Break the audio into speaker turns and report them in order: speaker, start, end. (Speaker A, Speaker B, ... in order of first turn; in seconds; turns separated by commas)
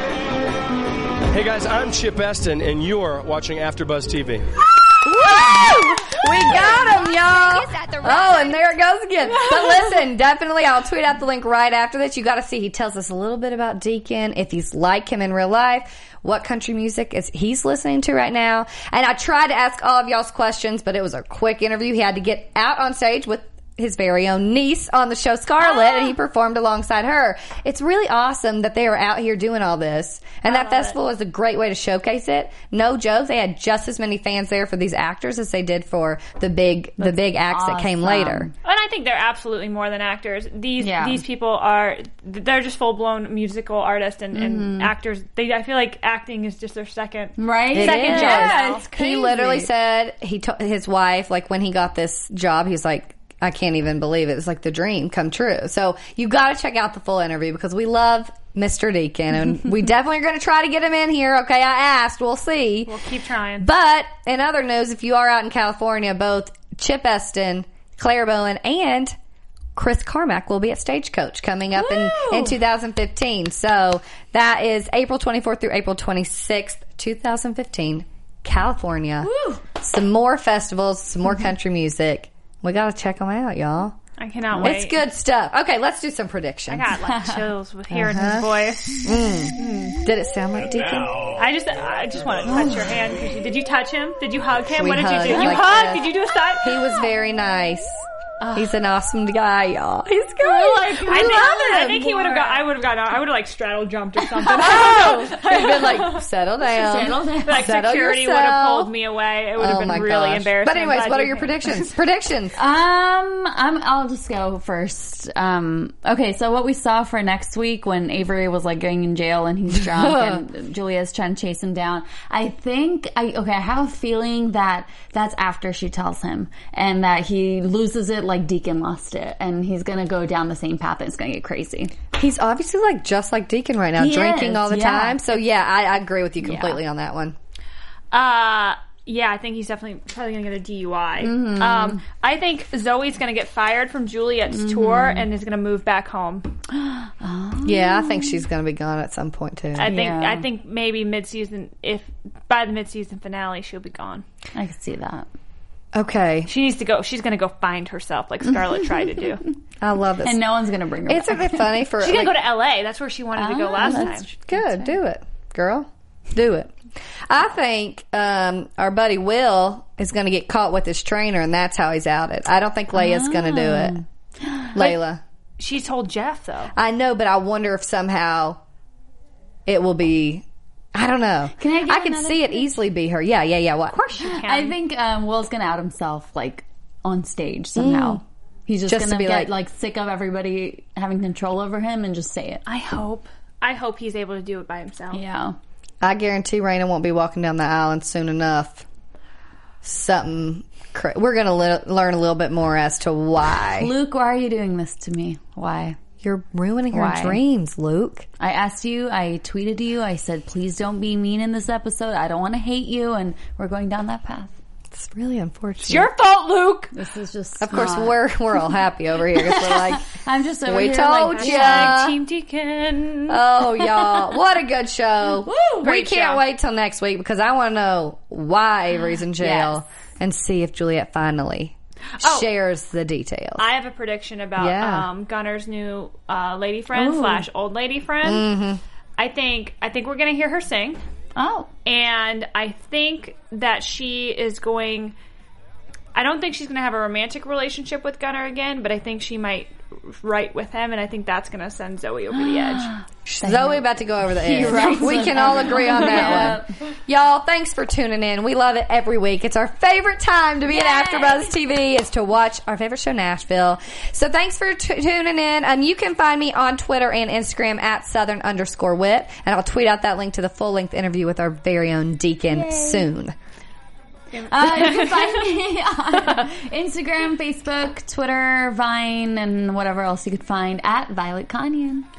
Speaker A: 1.3-4.4, Speaker B: 5.0-38.5, Speaker C: 25.6-26.1, Speaker C: 30.4-30.9, Speaker D: 37.0-38.5, Speaker C: 38.6-48.9, Speaker D: 40.8-41.2, Speaker D: 44.3-44.9, Speaker D: 47.4-49.7, Speaker B: 47.7-62.9, Speaker C: 62.9-63.7, Speaker B: 63.6-69.1, Speaker B: 69.8-84.0, Speaker C: 71.8-72.5, Speaker C: 84.2-85.0, Speaker D: 84.5-84.8, Speaker B: 84.6-86.9, Speaker C: 86.7-90.0, Speaker D: 87.0-87.5, Speaker B: 87.9-88.5, Speaker B: 89.0-91.2, Speaker C: 91.3-96.8, Speaker B: 94.8-98.0, Speaker D: 95.3-95.6, Speaker B: 98.5-102.6, Speaker C: 100.7-106.3, Speaker B: 104.5-108.9, Speaker D: 106.6-107.7, Speaker C: 107.5-111.6, Speaker B: 109.6-112.5, Speaker D: 112.5-131.9, Speaker B: 119.8-120.4, Speaker B: 132.1-137.3, Speaker D: 134.0-135.2, Speaker C: 138.1-146.5, Speaker D: 141.2-142.0, Speaker D: 144.5-145.2, Speaker D: 146.7-148.4, Speaker B: 147.6-149.9, Speaker D: 149.8-150.4, Speaker C: 149.8-154.2, Speaker D: 154.5-155.3, Speaker B: 155.9-156.5, Speaker C: 156.5-159.4, Speaker D: 158.5-159.4, Speaker B: 159.8-160.4, Speaker D: 160.2-161.7, Speaker B: 161.1-162.3, Speaker C: 162.0-164.3, Speaker D: 163.3-164.9, Speaker B: 164.4-166.7, Speaker B: 167.3-174.0, Speaker D: 172.9-174.7, Speaker B: 174.7-175.2, Speaker C: 175.6-176.7, Speaker B: 176.7-178.6, Speaker B: 179.7-184.0, Speaker D: 181.6-182.7, Speaker C: 183.9-184.8, Speaker D: 184.2-192.6, Speaker B: 187.8-188.2, Speaker B: 188.8-189.5, Speaker C: 192.7-195.2, Speaker D: 195.1-195.6, Speaker B: 196.0-198.8, Speaker B: 199.8-203.9, Speaker D: 203.8-206.0, Speaker B: 206.2-208.3, Speaker D: 206.9-207.4, Speaker D: 208.4-214.5, Speaker B: 214.9-216.1, Speaker C: 215.8-216.9, Speaker D: 216.9-218.2, Speaker B: 217.6-220.1, Speaker D: 219.3-222.0, Speaker B: 220.6-222.2, Speaker C: 221.3-223.4, Speaker B: 223.3-233.7, Speaker D: 225.5-225.8, Speaker C: 225.6-226.4, Speaker D: 229.4-229.8, Speaker C: 232.2-232.5, Speaker C: 233.6-238.5, Speaker B: 234.6-235.1, Speaker D: 236.9-237.4, Speaker B: 238.2-238.8, Speaker C: 239.2-241.0, Speaker D: 241.3-241.7, Speaker C: 241.8-245.1, Speaker C: 246.1-252.9, Speaker D: 252.3-256.7, Speaker B: 253.2-273.3, Speaker C: 256.0-256.5, Speaker D: 260.7-261.5, Speaker D: 272.5-273.1, Speaker C: 274.3-275.5, Speaker D: 274.5-282.1